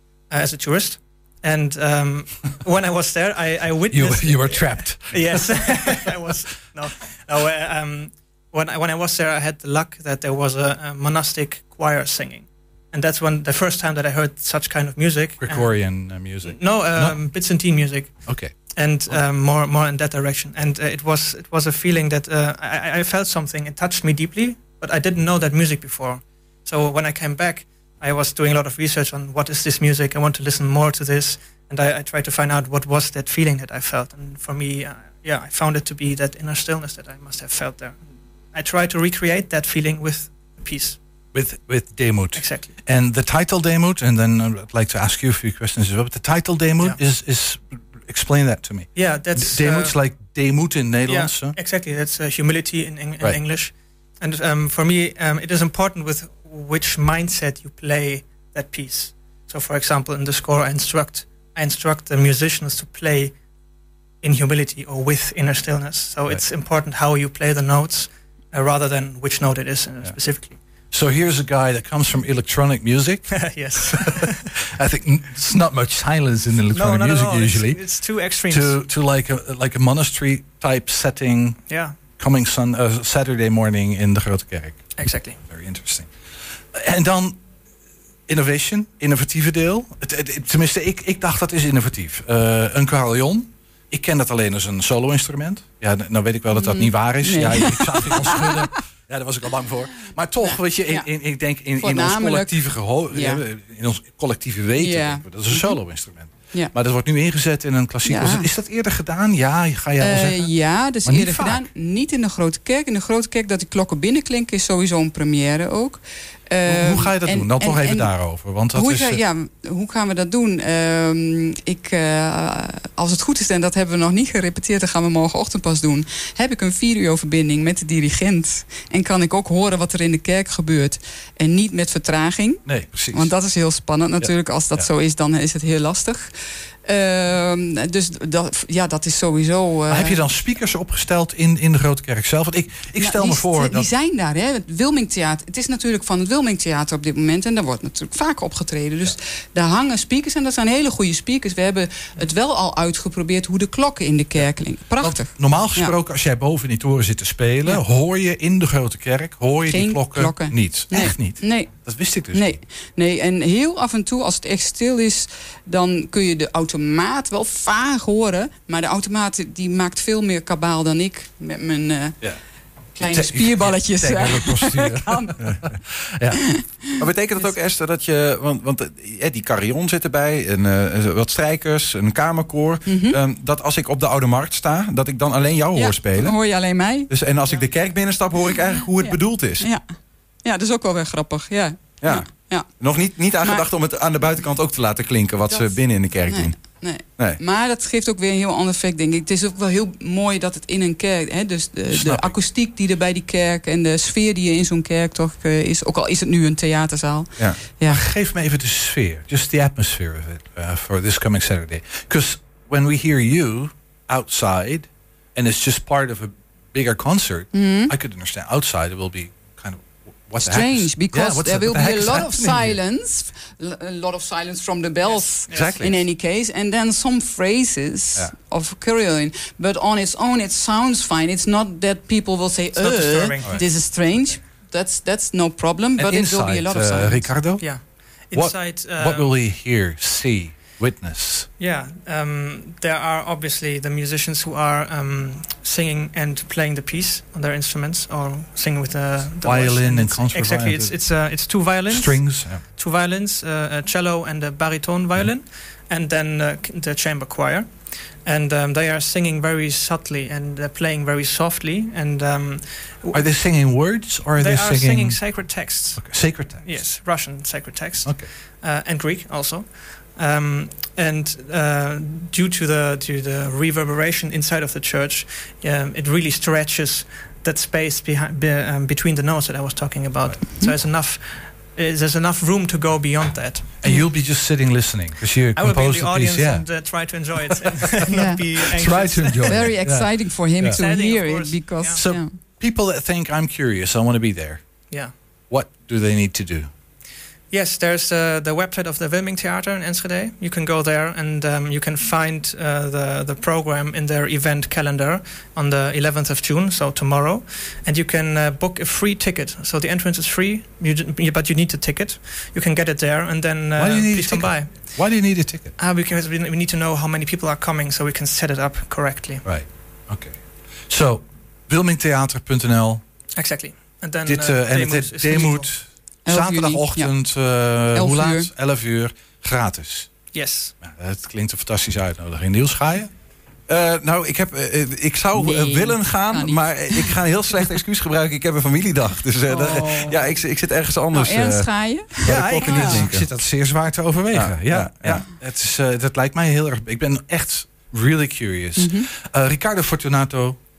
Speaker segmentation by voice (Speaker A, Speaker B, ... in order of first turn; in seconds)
Speaker A: 0.3-15.7, 16.4-18.1, 18.8-38.0, 38.5-41.0, 42.4-42.8, 49.0-50.0, 51.1-63.3, 64.2-70.6, 73.3-74.5, 76.7-78.8, 81.7-82.0, 85.0-85.4, 225.1-225.9, 232.8-233.6, 237.6-239.3, 241.6-257.7, 258.2-263.2, 264.4-283.8, 285.6-289.6, 290.7-292.0, 297.5-314.9, 315.8-319.4, 323.4-325.7, 330.3-330.7
Speaker B: 3.9-6.0, 15.4-17.2, 18.3-18.6, 41.3-51.5, 70.9-73.3, 74.6-77.8, 78.5-81.6, 82.2-84.8, 85.5-86.1, 86.7-87.4, 88.3-110.5, 111.0-111.7, 116.7-119.2, 132.7-133.3, 134.2-134.9, 139.9-143.9, 155.0-162.6, 173.0-176.4, 201.9-202.3, 207.9-222.8, 225.5-226.0, 236.0-237.7, 238.3-241.5, 249.4-250.9, 251.9-252.6, 263.1-265.2, 266.0-266.7, 283.8-286.7, 288.7-290.8, 292.0-294.6, 295.5-296.7, 313.8-315.7, 319.4-320.4, 320.9-323.0, 324.2-330.1, 330.8-333.1, 342.2-350.6
Speaker C: 96.5-98.7, 100.4-101.1, 101.8-103.4, 104.8-105.8, 108.0-108.5, 110.0-118.1, 118.7-136.3, 136.8-140.2, 143.0-155.9, 159.7-172.3, 173.0-175.4, 176.3-177.4, 182.9-183.2, 185.8-187.1, 189.0-189.9, 190.4-192.7, 193.4-193.7, 196.3-208.1, 217.5-217.9, 220.4-237.3, 288.1-288.4, 289.4-292.3, 326.3-327.1, 327.9-328.5, 335.3-337.2, 339.5-340.2, 341.1-343.1, 348.8-349.1
Speaker D: 177.0-186.4, 187.1-189.7, 192.0-196.6, 333.7-341.7, 342.2-343.3, 344.3-345.2